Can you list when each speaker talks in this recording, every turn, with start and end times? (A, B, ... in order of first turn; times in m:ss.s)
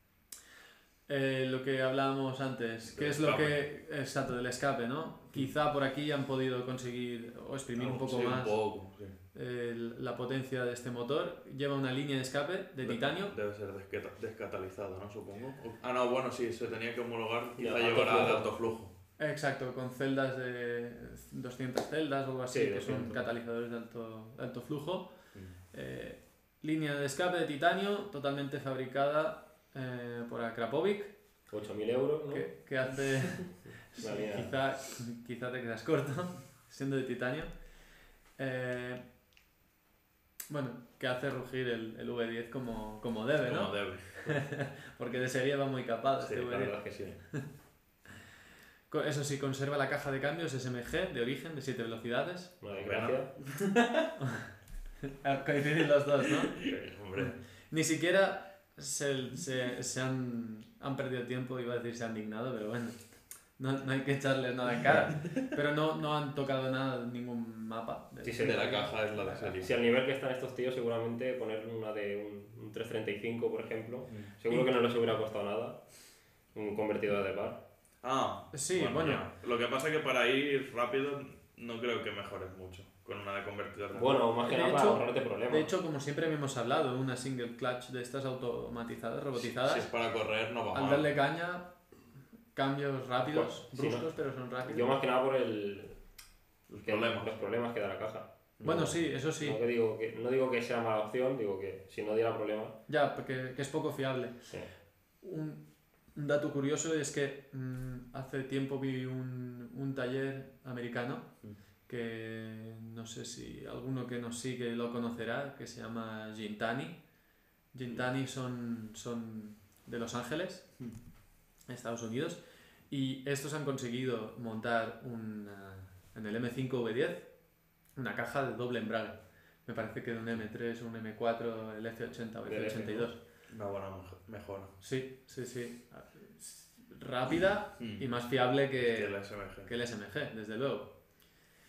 0:01.1-0:08.6 A
0:02.9-0:03.6 B
0:07.8-0:09.2 B
0:09.3-0:13.3 A
0:12.8-0:18.9 B
0:17.6-0:18.5 C
0:19.2-0:25.1 A
0:22.5-0:23.2 C
0:25.7-0:31.1 A
0:31.5-0:32.5 C
0:32.3-0:37.5 A
0:34.0-0:34.5 C
0:38.4-0:39.0 A
0:40.5-0:47.4 A
0:43.4-0:44.3 B
0:46.2-0:47.2 B
0:46.4-0:47.1 C
0:48.9-0:52.6 A
0:52.6-0:53.3 C
0:52.8-0:53.9 B
0:54.2-0:54.5 A
0:55.0-0:56.6 A
0:56.5-0:57.4 B
0:57.2-1:03.0 A
1:03.6-1:09.5 A
1:08.2-1:08.8 C
1:08.4-1:09.7 B
1:09.5-1:15.8 C
1:16.5-1:17.6 C
1:18.0-1:24.1 B
1:18.5-1:19.3 A
1:23.9-1:25.7 C
1:24.4-1:29.9 A
1:29.4-1:31.0 B
1:30.7-1:31.7 A
1:32.5-1:34.9 A
1:33.2-1:34.1 C
1:34.6-1:36.0 C
1:36.7-1:37.3 B
1:36.8-1:42.8 C
1:38.6-1:38.9 B
1:38.6-1:39.6 A
1:42.9-1:44.5 A
1:45.2-1:45.6 A
1:46.1-1:51.3 A
1:51.9-1:57.0 A
1:57.7-2:00.7 A
2:01.7-2:07.3 A
2:08.0-2:13.2 A
2:12.4-2:13.1 C
2:13.5-2:14.7 B
2:14.8-2:19.1 A
2:17.8-2:18.1 B
2:18.8-2:19.7 B
2:19.6-2:20.9 A